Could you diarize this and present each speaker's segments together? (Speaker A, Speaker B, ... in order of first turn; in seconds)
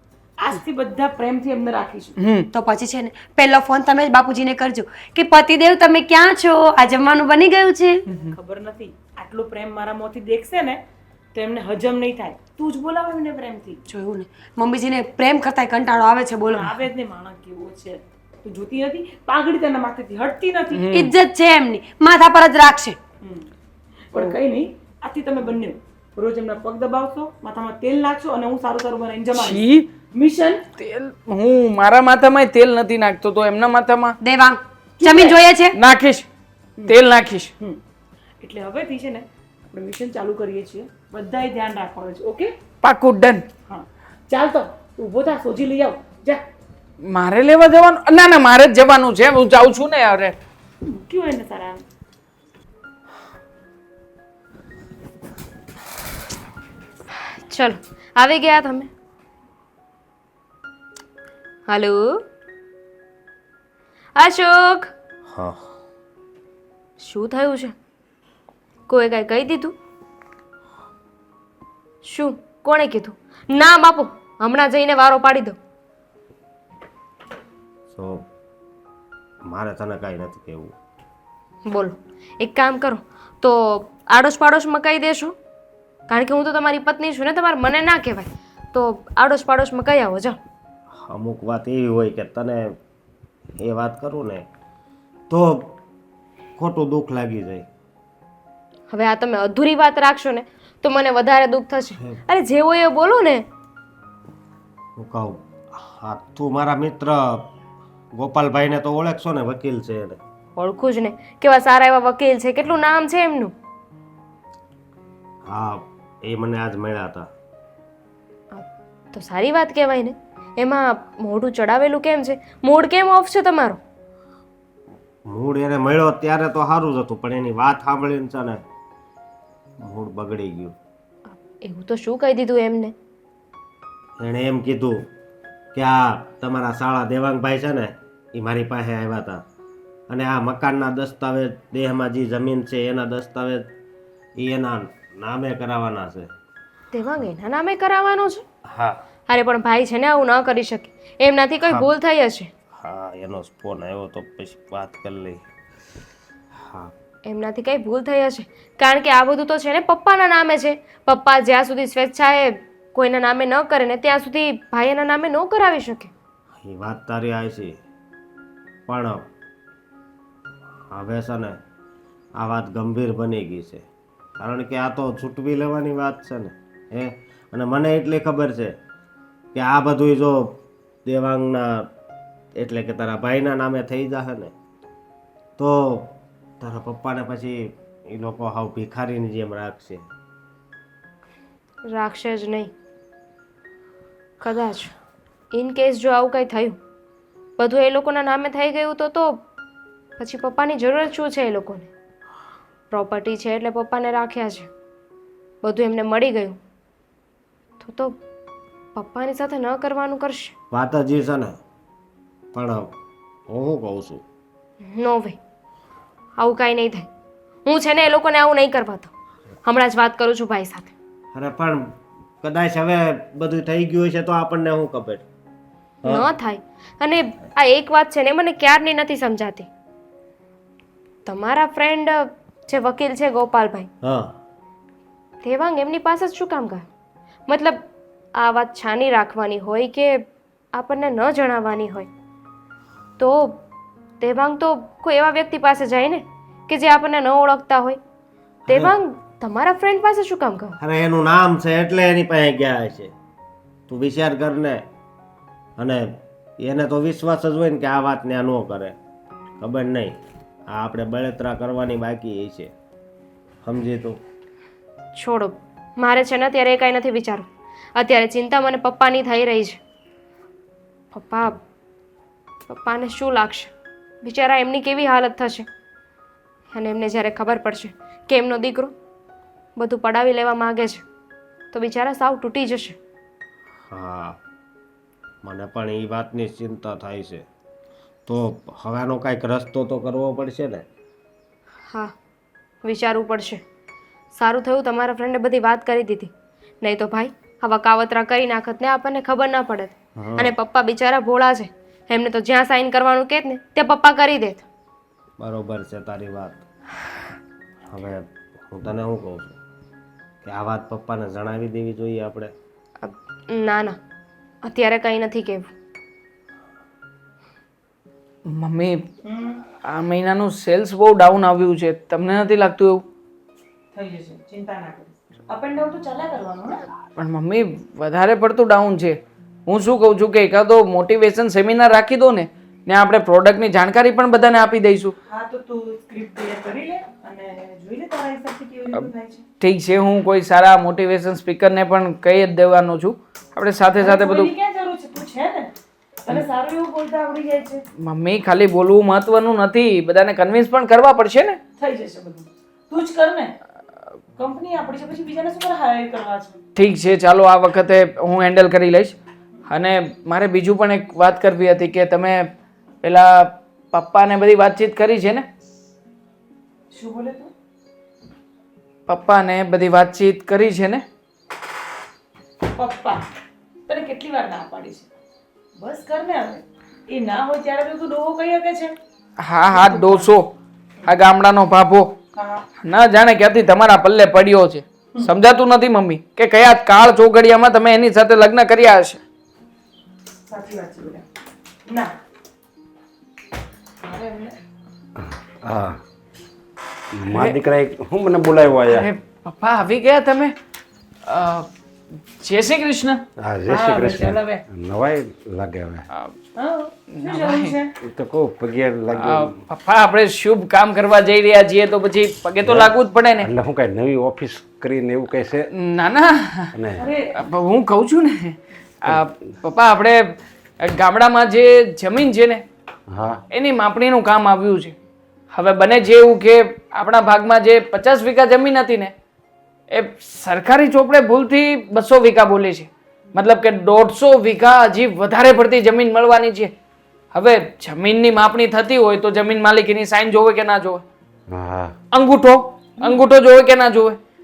Speaker A: 0.4-2.2, 8.2-10.8, 11.3-13.8, 16.5-20.9, 24.1-29.6, 30.1-30.6, 35.0-35.4, 38.4-42.5, 43.7-46.4, 50.9-51.8, 319.2-319.6, 323.9-326.8, 335.3-339.4, 344.0-345.7, 346.3-347.8, 351.8-353.5, 354.4-356.6, 366.9-367.5, 372.7-373.2, 373.9-375.1, 375.8-378.9, 379.7-380.3, 382.4-382.6, 390.5-391.2, 394.0-394.6, 403.7-404.6, 406.6-407.9, 417.0-417.3
Speaker B: 2.2-2.5, 20.7-21.1, 29.3-29.9, 30.8-34.2, 35.7-36.3, 36.9-37.5, 42.8-43.5, 47.0-50.4, 318.5-319.0, 319.8-323.0, 327.2-335.1, 339.6-344.5, 348.0-351.6, 356.8-359.1, 359.7-362.5, 363.0-365.5, 369.1-371.0, 379.4-380.5, 381.1-382.1, 382.8-389.2, 398.9-400.5, 401.3-401.7, 402.4-403.2, 407.1-407.7, 409.2-413.5, 415.7-416.7, 417.4-420.2, 420.8-422.6, 423.5-424.9, 425.5-429.1, 429.9-436.7, 437.3-441.0, 442.1-444.2
Speaker C: 2.5-8.0, 13.9-16.7, 20.9-23.0, 34.2-35.8
Speaker D: 57.5-58.9, 61.7-62.0, 64.2-64.9, 67.0-67.8, 68.9-69.8, 72.1-75.5, 81.7-85.3, 86.1-90.4, 98.9-103.5, 110.6-113.5, 118.5-123.8, 131.3-132.9, 146.9-148.4, 149.3-152.5, 157.3-166.1, 192.0-192.7, 194.4-194.9, 195.6-196.8, 197.6-199.4, 200.2-201.9, 202.9-204.7, 205.6-206.6, 207.8-208.2, 209.0-210.5, 214.9-215.4, 216.4-217.1, 217.7-219.1, 219.7-220.9, 226.1-229.7, 231.3-233.9, 235.4-236.9, 237.5-237.9, 238.4-242.1, 243.2-243.6, 244.2-248.0, 248.7-250.8, 265.2-267.4, 268.0-269.8, 271.1-271.6, 272.8-273.7, 274.2-275.7, 276.7-278.9, 279.8-281.1, 281.7-283.0, 292.9-293.6, 294.4-296.3, 296.8-304.6, 313.1-314.0, 314.7-315.7
Speaker E: 65.3-65.5, 77.9-78.2, 79.5-80.7, 91.1-92.6, 93.6-94.5, 95.3-95.7, 96.6-97.7, 105.0-107.5, 108.2-110.2, 115.5-117.3, 125.3-128.6, 129.8-130.8, 134.2-135.0, 135.7-139.4, 140.1-143.7, 144.4-146.3, 148.7-149.0, 151.7-151.9, 152.8-155.4, 166.6-167.7, 168.9-169.2, 170.9-171.6, 172.4-173.9, 174.4-178.7, 179.6-181.8, 182.6-184.5, 185.6-187.6, 188.1-190.0, 210.7-211.5, 212.5-212.9, 213.5-214.2, 221.3-221.8, 222.4-225.2, 226.0-226.3, 234.0-234.3, 248.7-248.9, 250.8-253.1, 253.9-254.8, 255.8-256.1, 256.6-259.0, 259.6-260.1, 260.7-262.7, 263.6-264.1, 283.9-284.4, 285.4-287.4, 288.3-290.8, 300.2-300.6, 305.4-306.6, 307.9-309.6, 310.4-312.5
Speaker F: 395.2-396.0, 397.1-399.1, 403.4-406.1, 408.0-409.5, 412.6-415.7, 416.7-417.0, 423.1-423.4, 441.5-441.9